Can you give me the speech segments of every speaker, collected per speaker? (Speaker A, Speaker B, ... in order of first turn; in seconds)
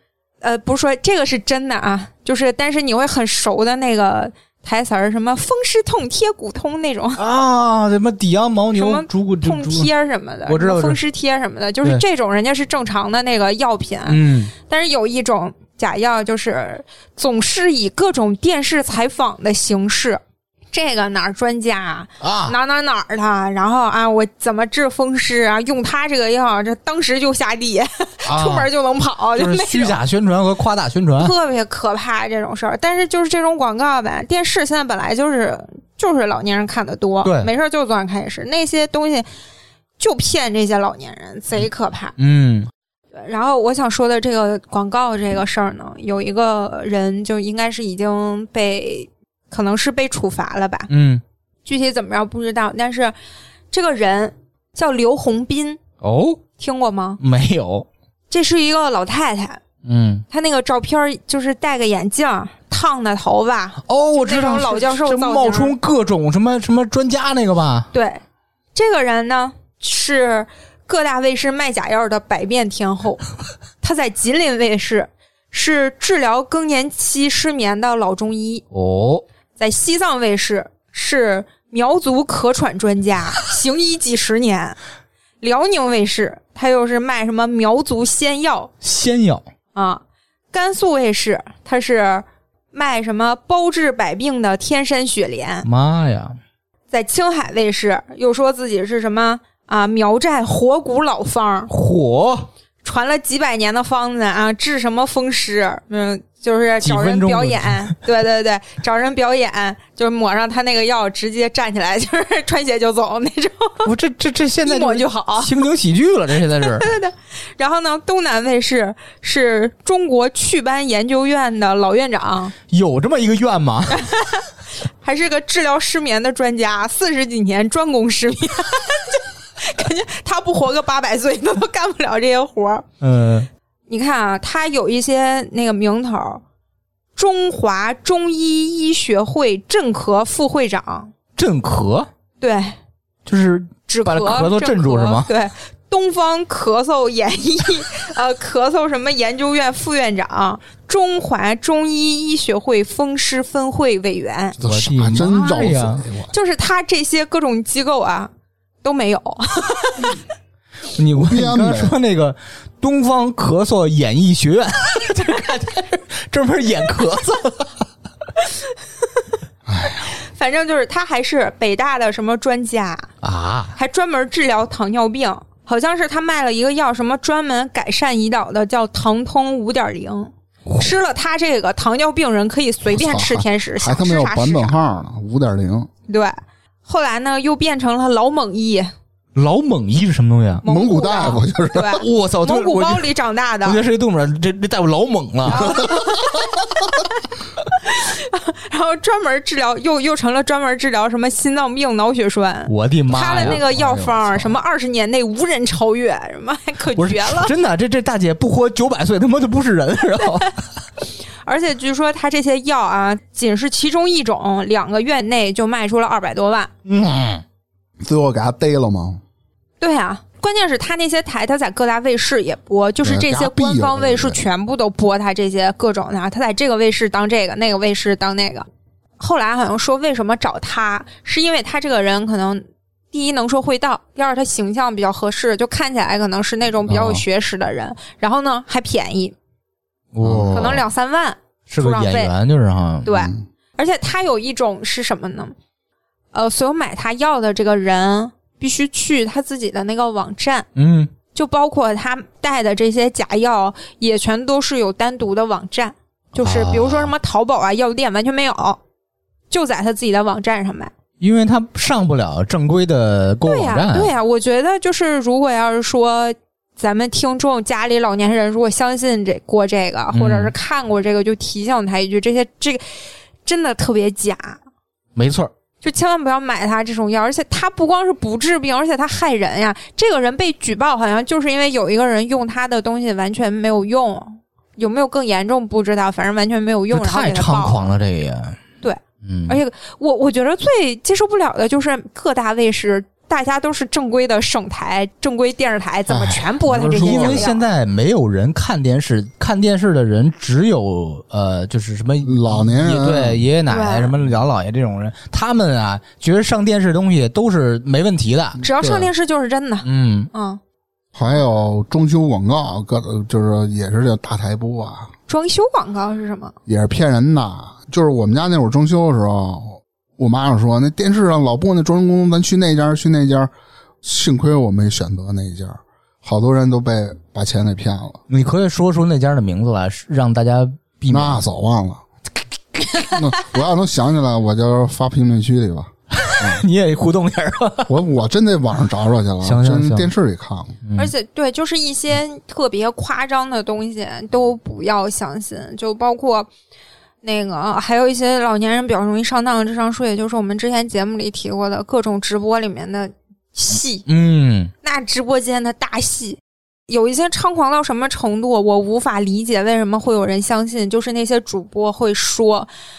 Speaker A: 0.4-7.2, 8.7-20.2, 20.7-30.0, 31.2-39.3, 40.0-42.1, 43.1-50.9, 51.7-53.1, 53.7-55.8, 56.6-57.2, 58.3-59.6, 60.3-65.8, 67.9-68.2, 68.8-73.2, 73.8-78.7, 79.6-84.8, 85.4-88.7, 89.8-95.7, 96.9-101.7, 102.8-113.9, 114.7-115.5, 116.6-122.5, 123.9-124.5, 125.0-132.9, 133.9-136.4, 137.2-141.1, 142.4-142.8, 143.9-154.6, 156.3-158.3, 158.8-160.2, 170.1-173.1, 173.8-184.8, 186.1-188.9, 190.6-193.8, 195.5-196.4, 197.7-207.5, 211.4-216.7, 219.8-228.7, 229.2-239.3, 240.5-242.3, 243.1-245.6, 246.3-250.7, 251.3-258.8, 259.5-260.9, 263.4-272.8, 273.4-274.6, 275.8-287.9, 288.8-297.6, 303.7-304.1, 308.6-310.6, 315.3-316.6, 341.0-346.5, 347.2-354.1, 354.8-362.7
Speaker B: 7.2-9.9, 10.5-11.0, 14.1-14.5, 22.2-22.6, 28.3-28.7, 29.4-31.3, 37.2-37.5, 42.2-42.7, 50.9-51.2, 56.0-56.4, 57.2-57.9, 59.9-60.2, 63.9-67.9, 78.7-79.2, 88.8-89.4, 95.6-96.4, 101.7-102.5, 106.8-108.0, 113.8-116.9, 122.7-124.1, 133.0-133.5, 141.4-142.1, 143.3-145.3, 154.6-156.1, 160.9-167.8, 173.2-173.7, 189.3-190.6, 192.0-193.1, 193.6-195.7, 202.7-204.5, 206.9-210.7, 216.8-217.4, 236.9-237.2, 240.1-240.8, 241.7-243.3, 250.8-251.1, 256.4-257.1, 261.2-264.1, 270.1-270.5, 275.2-275.5, 286.9-288.6, 289.2-289.6, 296.7-308.6, 309.8-310.3, 328.3-331.4, 336.1-337.9, 339.4-340.1, 340.8-341.1, 354.1-354.7
Speaker C: 154.6-156.3, 161.2-162.0, 169.7-170.1, 182.9-185.9, 190.7-192.0, 195.6-196.7, 218.0-219.2, 223.0-224.4, 240.2-240.8, 296.1-297.5, 302.2-303.4, 308.8-309.1, 311.1-315.1, 316.7-323.5, 324.0-328.2, 331.1-332.0, 333.1-336.6, 337.9-340.8